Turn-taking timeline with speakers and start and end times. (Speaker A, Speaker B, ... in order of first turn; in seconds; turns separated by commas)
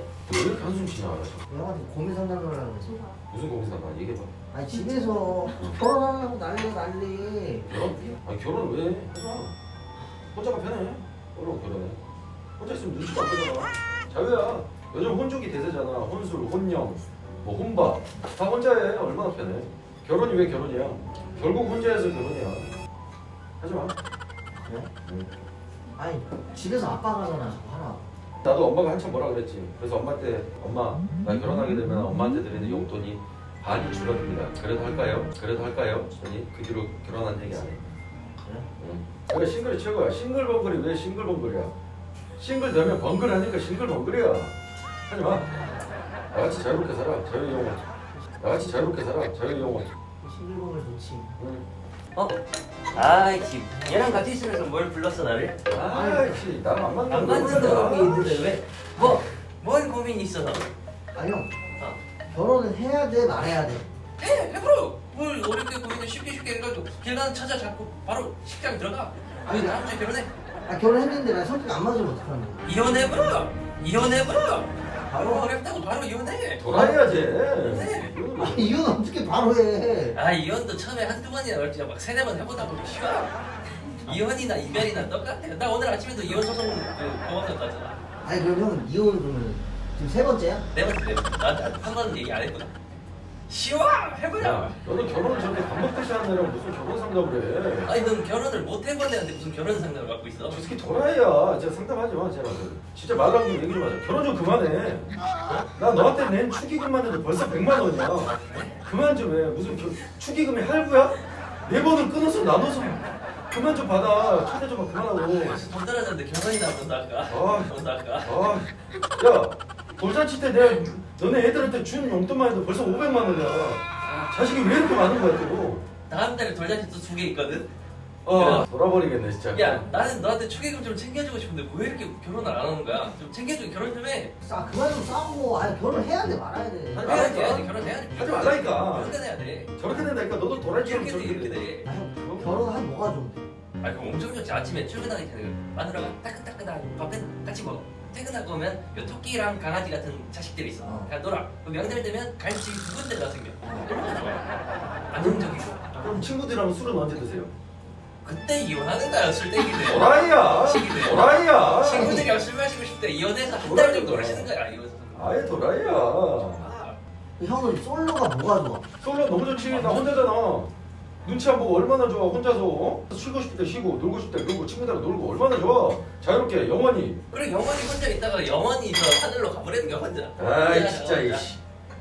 Speaker A: 0.3-1.5, Speaker B: 1.5-3.1, Speaker A: 3.3-4.3, Speaker B: 4.5-7.9, Speaker A: 7.7-9.5, Speaker A: 10.3-12.0, Speaker A: 12.6-22.7, Speaker A: 23.6-23.9, Speaker B: 24.5-24.9, Speaker B: 26.0-28.1, Speaker A: 28.4-37.8, Speaker B: 38.4-38.7, Speaker A: 38.8-41.7, Speaker A: 42.4-44.5, Speaker A: 45.1-45.5, Speaker B: 45.4-45.7, Speaker A: 46.3-47.8, Speaker A: 48.4-49.9, Speaker B: 48.4-49.0, Speaker B: 50.2-51.4, Speaker A: 51.4-51.6, Speaker C: 52.9-55.6, Speaker B: 53.7-54.2, Speaker A: 55.7-58.4, Speaker B: 55.9-56.5, Speaker C: 57.1-60.7, Speaker B: 57.4-58.4, Speaker B: 59.0-59.2, Speaker B: 61.1-61.5, Speaker B: 62.3-63.9, Speaker C: 64.2-70.3, Speaker B: 69.4-69.8, Speaker B: 70.7-72.6, Speaker C: 72.6-76.6, Speaker B: 75.1-75.5, Speaker A: 76.6-78.8, Speaker B: 76.7-77.3, Speaker C: 77.6-78.1, Speaker B: 78.3-80.2, Speaker C: 80.1-83.4, Speaker C: 84.0-88.0, Speaker B: 88.2-90.7, Speaker C: 90.7-92.7, Speaker C: 93.5-94.8, Speaker A: 94.4-97.9, Speaker C: 97.8-100.6, Speaker A: 100.5-105.1, Speaker A: 105.7-108.3, Speaker C: 108.2-108.8, Speaker A: 108.8-115.6, Speaker C: 115.3-118.3, Speaker A: 117.3-125.8, Speaker C: 124.0-124.4, Speaker C: 126.1-127.7, Speaker A: 128.2-129.8, Speaker C: 128.3-128.7, Speaker C: 129.5-134.3, Speaker B: 134.4-137.2, Speaker A: 136.9-139.2, Speaker C: 137.0-139.7, Speaker A: 139.8-142.6, Speaker C: 140.7-141.9, Speaker B: 141.8-143.5, Speaker C: 143.8-154.5, Speaker B: 150.8-151.1, Speaker B: 153.6-153.9, Speaker C: 155.1-155.9, Speaker A: 155.2-157.5, Speaker C: 158.2-165.4, Speaker A: 159.8-162.3, Speaker A: 163.6-164.5, Speaker A: 165.2-166.7, Speaker C: 166.5-167.0, Speaker B: 167.4-168.8, Speaker A: 169.0-170.7, Speaker C: 169.6-170.1, Speaker A: 171.2-177.2, Speaker C: 177.3-181.5, Speaker A: 180.4-181.6